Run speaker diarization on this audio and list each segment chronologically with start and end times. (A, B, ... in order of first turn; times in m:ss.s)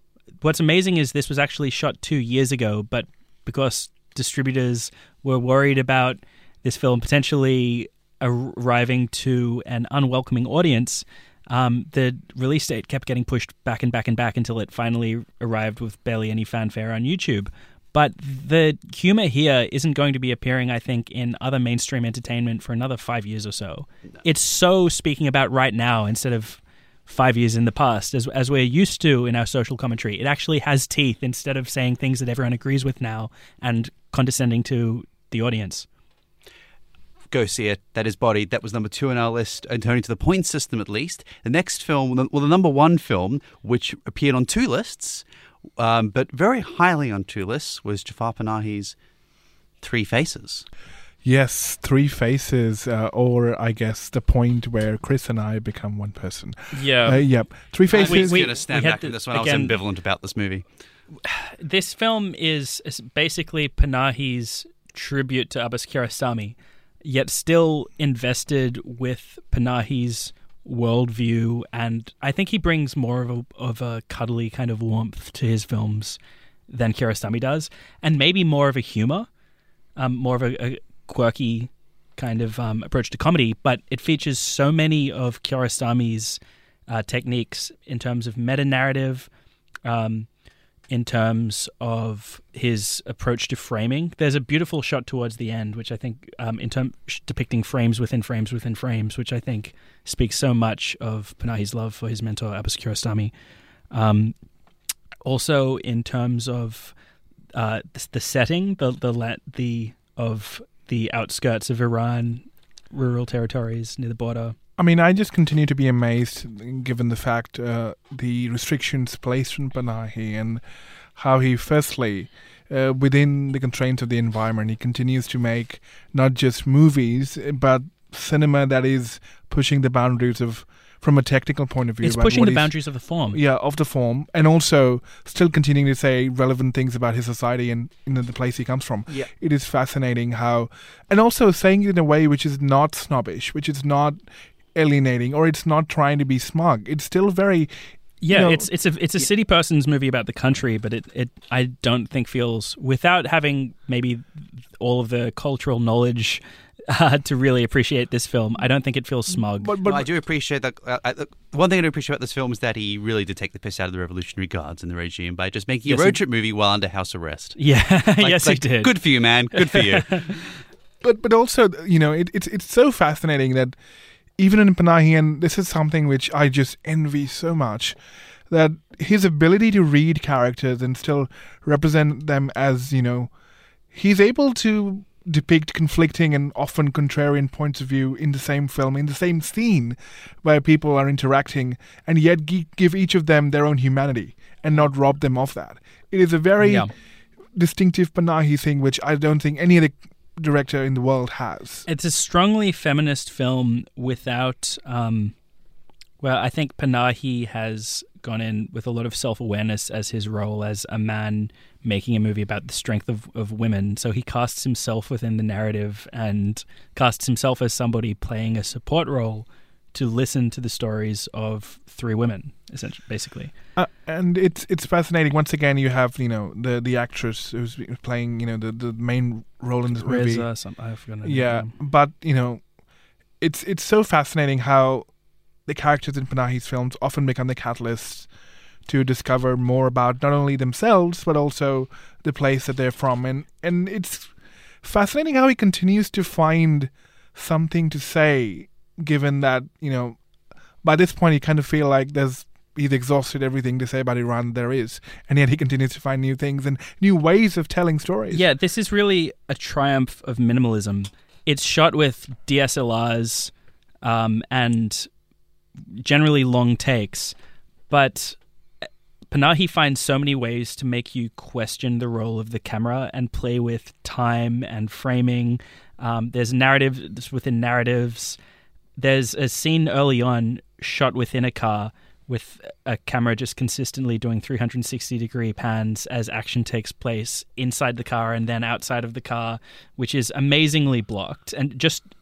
0:00.4-0:35.9 A
0:37.3-0:45.2 B
0:45.8-0:49.0 B
0:49.8-0:50.7 B
0:51.2-0:58.5 C
0:56.7-0:57.2 A
0:57.9-1:00.6 B
0:58.0-0:59.8 A
1:01.2-1:16.2 A
1:16.7-1:19.3 A
1:20.0-1:29.3 A
1:29.8-1:30.3 A
1:30.9-1:43.3 A
1:43.9-1:44.3 A
1:45.2-1:47.0 A
1:47.6-1:54.6 A
1:54.8-2:00.6 C
2:01.2-2:12.7 C
2:12.0-2:13.4 A
2:13.3-2:24.2 C
2:24.8-2:27.7 C
2:28.2-2:39.8 A
2:28.3-2:28.7 C
2:39.6-2:40.0 C
2:39.8-2:47.6 B
2:45.9-2:46.2 A
2:47.6-2:48.9 A
2:48.2-2:50.4 B
2:49.6-2:50.4 A
2:51.0-2:53.8 C
2:54.4-2:58.0 C
2:58.5-3:03.3 C
3:03.9-3:16.9 C
3:16.6-3:16.9 A
3:17.5-3:21.9 C
3:21.9-3:25.3 A
3:26.2-3:43.5 A
3:43.8-3:50.5 C
3:50.0-3:51.7 A
3:51.2-3:52.6 C
3:53.4-3:55.1 C
3:55.7-3:58.3 C
3:58.9-4:04.3 C
4:04.8-4:10.2 C
4:10.8-4:18.4 C
4:18.3-4:25.1 A
4:25.9-4:27.4 A
4:27.9-4:28.4 A
4:29.3-4:38.4 A
4:39.0-4:52.0 A